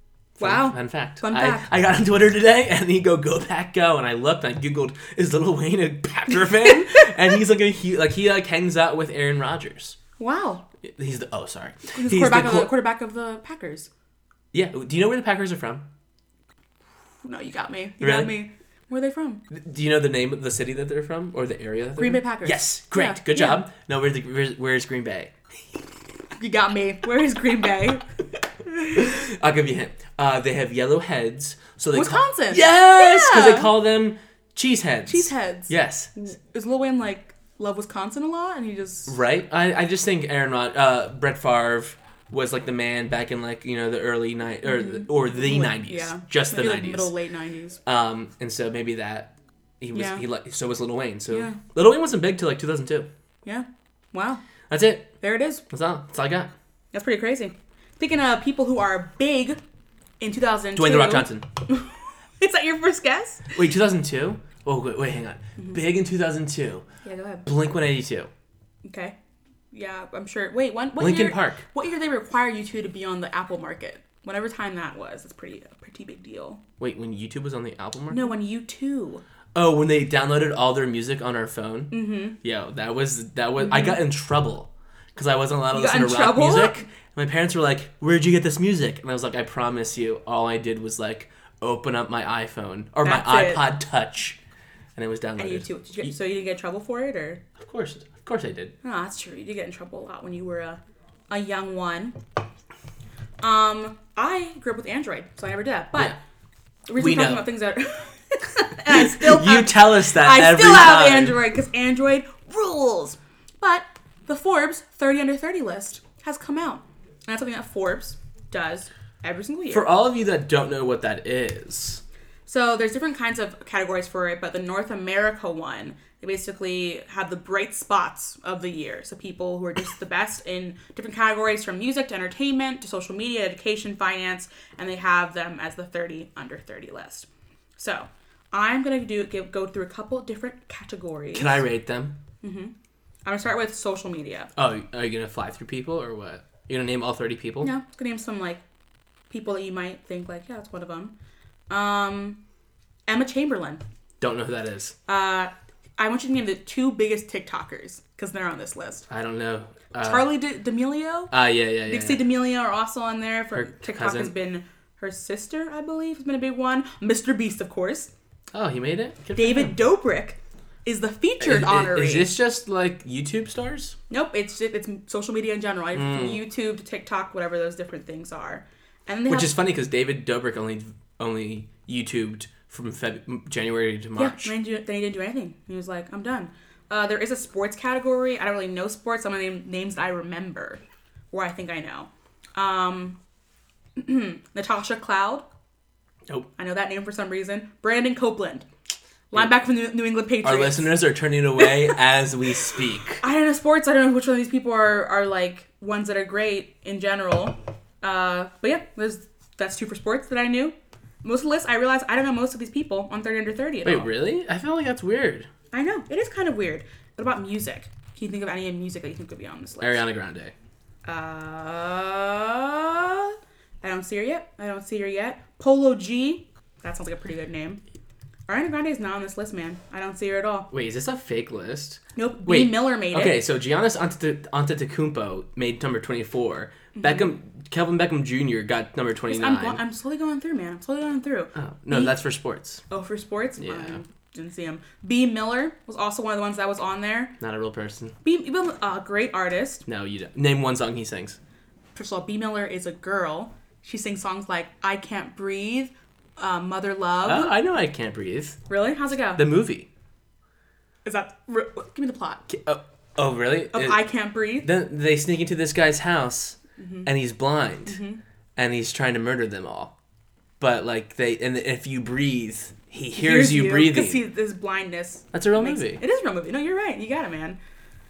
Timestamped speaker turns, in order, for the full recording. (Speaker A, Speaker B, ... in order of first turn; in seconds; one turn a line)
Speaker A: 0.4-10.0
Speaker B: 0.4-1.6
Speaker B: 10.2-10.6
Speaker A: 10.8-12.7
Speaker B: 11.9-13.9
Speaker A: 14.5-15.9
Speaker B: 17.2-19.4
Speaker A: 18.0-18.3
Speaker A: 19.5-25.3
Speaker B: 22.0-23.6
Speaker B: 26.4-28.1
Speaker A: 28.9-36.1
Speaker B: 31.9-33.7
Speaker B: 35.1-39.2
Speaker A: 39.1-47.1
Speaker B: 44.6-47.8
Speaker A: 47.9-53.1
Speaker B: 49.9-50.2
Speaker B: 51.3-51.6
Speaker B: 53.5-54.4
Speaker A: 54.7-55.1
Speaker B: 55.2-55.6
Speaker A: 55.7-56.5
Speaker B: 56.9-59.6
Speaker B: 60.2-63.5
Speaker A: 60.8-61.5
Speaker A: 63.5-66.8
Speaker B: 67.0-67.5
Speaker A: 67.5-68.3
Speaker B: 68.8-69.2
Speaker B: 69.7-76.6
Speaker A: 71.0-71.6
Speaker A: 76.8-78.3
Speaker B: 78.1-79.2
Speaker A: 79.5-94.4
Speaker B: 81.9-82.4
Speaker B: 83.6-84.0
Speaker B: 85.7-86.9
Speaker B: 93.0-93.7
Speaker A: 95.0-96.1
Speaker B: 95.4-97.4
Speaker A: 97.6-98.7
Speaker B: 98.8-100.8
Speaker B: 101.3-102.2
Speaker B: 103.4-106.2
Speaker B: 106.9-119.9
Speaker A: 107.0-107.5
Speaker A: 108.9-111.4
Speaker A: 119.7-122.0
Speaker B: 122.5-137.3
Speaker B: 137.8-141.6
Speaker A: 141.3-142.2
Speaker B: 142.4-142.7
Speaker B: 143.2-144.5
Speaker A: 144.6-147.7
Speaker B: 147.6-148.6
Speaker B: 149.3-151.1
Speaker B: 151.7-152.4
Speaker B: 153.1-153.8
Speaker A: 154.2-155.0
Speaker B: 155.1-159.1
Speaker A: 159.1-160.3
Speaker B: 160.0-161.3
Speaker A: 161.3-162.3
Speaker B: 161.8-168.1
Speaker A: 163.5-164.3
Speaker A: 168.5-169.8
Speaker B: 169.4-172.4
Speaker A: 171.4-174.0
Speaker B: 174.1-179.6
Speaker A: 175.9-176.4
Speaker A: 179.3-184.5
Speaker B: 184.2-193.2
Speaker B: 194.0-195.4
Speaker B: 196.6-198.7
Speaker B: 199.3-200.9
Speaker A: 200.4-203.2
Speaker B: 201.6-202.0
Speaker B: 203.2-214.1
Speaker A: 213.8-215.5
Speaker B: 215.7-220.0
Speaker A: 219.8-220.5
Speaker B: 221.1-227.8
Speaker B: 228.5-230.7
Speaker A: 230.7-239.8
Speaker B: 232.2-233.4
Speaker B: 236.9-237.3
Speaker B: 239.3-242.2
Speaker A: 241.6-242.8
Speaker B: 242.9-247.3
Speaker A: 243.6-244.0
Speaker A: 247.4-248.2
Speaker B: 248.2-249.9
Speaker A: 249.9-251.4
Speaker B: 251.9-257.5
Speaker A: 257.2-258.6
Speaker B: 258.7-259.4
Speaker A: 259.4-259.9
Speaker B: 261.1-262.4
Speaker A: 262.5-264.0
Speaker B: 263.7-264.7
Speaker A: 264.6-268.0
Speaker B: 266.8-267.1
Speaker B: 267.9-268.2
Speaker A: 268.6-269.9
Speaker A: 270.6-274.2
Speaker B: 273.2-277.6
Speaker A: 275.3-276.0